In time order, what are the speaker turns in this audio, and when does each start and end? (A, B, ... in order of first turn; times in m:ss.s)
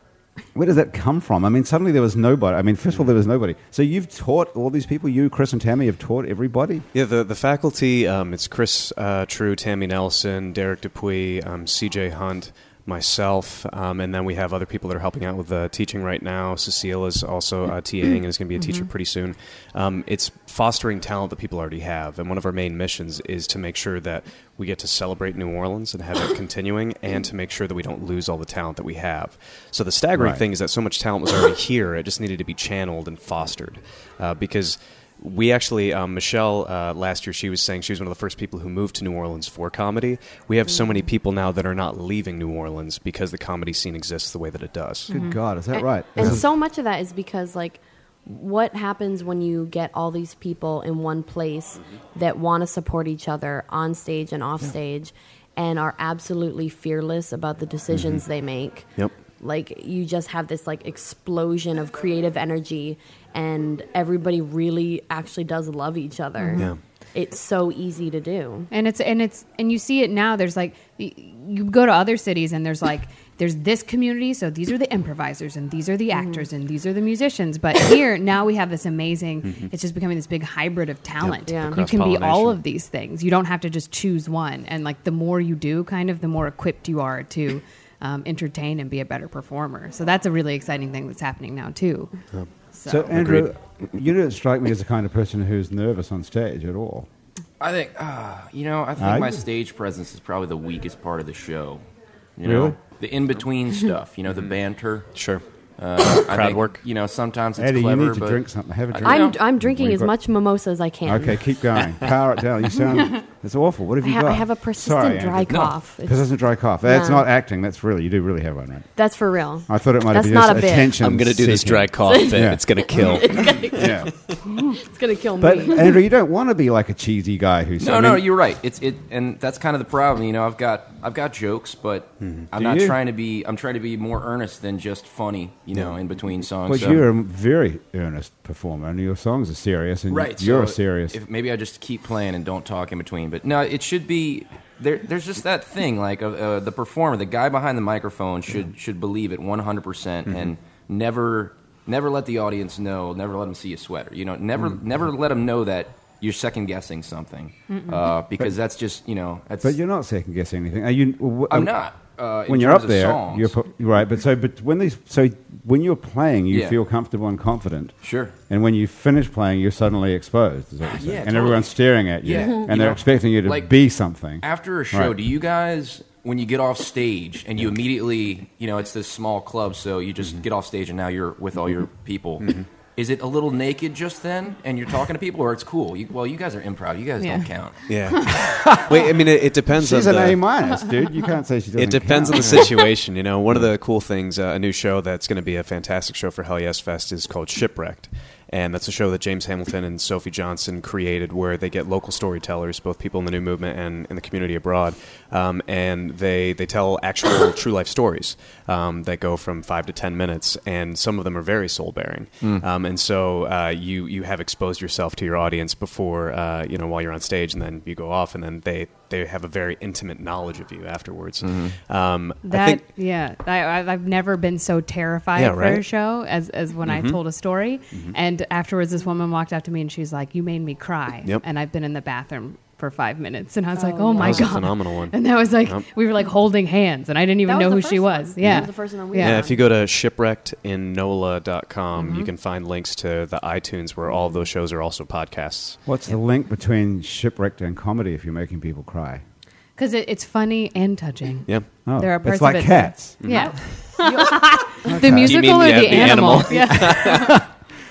0:00.5-0:06.8 A
0:06.9-0:45.1 B
0:18.6-0:18.9 C
0:30.2-0:30.4 A
0:45.1-0:45.4 C
0:45.1-0:46.4 A
0:45.7-1:08.7 D
0:57.9-0:58.2 B
1:06.4-1:06.7 C
1:08.7-1:32.2 C
1:16.1-1:16.5 D
1:21.2-1:22.6 B
1:21.4-1:21.8 D
1:32.7-1:33.0 C
1:32.8-1:37.1 A
1:33.1-1:33.5 B
1:37.6-1:41.8 E
1:39.0-1:39.4 A
1:42.4-1:45.1 E
1:42.4-1:42.8 A
1:45.1-1:45.4 B
1:45.8-1:49.4 E
1:46.0-1:46.8 B
1:47.6-1:50.1 A
1:49.0-1:51.5 D
1:51.0-1:58.9 A
1:54.0-1:56.2 D
1:55.5-1:55.7 E
1:56.8-1:57.2 D
1:59.0-2:01.0 D
1:59.7-2:04.1 A
2:01.0-2:04.4 B
2:02.0-2:06.0 D
2:05.4-2:08.3 A
2:07.8-2:17.0 E
2:12.2-2:12.5 B
2:12.5-2:13.0 A
2:16.7-2:21.2 A
2:20.1-2:39.8 E
2:39.6-2:41.7 A
2:41.5-2:43.5 E
2:42.5-2:47.9 A
2:46.5-2:46.8 E
2:48.0-2:48.3 E
2:48.5-2:55.2 A
2:50.9-2:53.7 E
2:54.4-3:07.9 E
3:02.4-3:02.7 B
3:07.2-3:07.5 C
3:07.9-3:10.4 B
3:08.0-3:08.4 C
3:08.4-3:09.1 A
3:09.7-3:12.8 A
3:11.8-3:42.8 B
3:41.4-3:41.8 E
3:42.4-3:59.5 C
3:45.3-3:45.8 B
3:46.8-3:47.2 B
3:53.7-3:54.6 D
3:54.2-3:55.8 B
3:57.5-3:59.6 D
3:59.2-4:05.8 B
4:04.2-4:04.4 D
4:05.8-4:09.2 A
4:09.8-4:17.4 C
4:11.8-4:13.2 A
4:13.2-4:14.0 B
4:13.3-4:14.3 D
4:14.8-4:15.8 A
4:15.0-4:17.4 B
4:16.7-4:17.4 A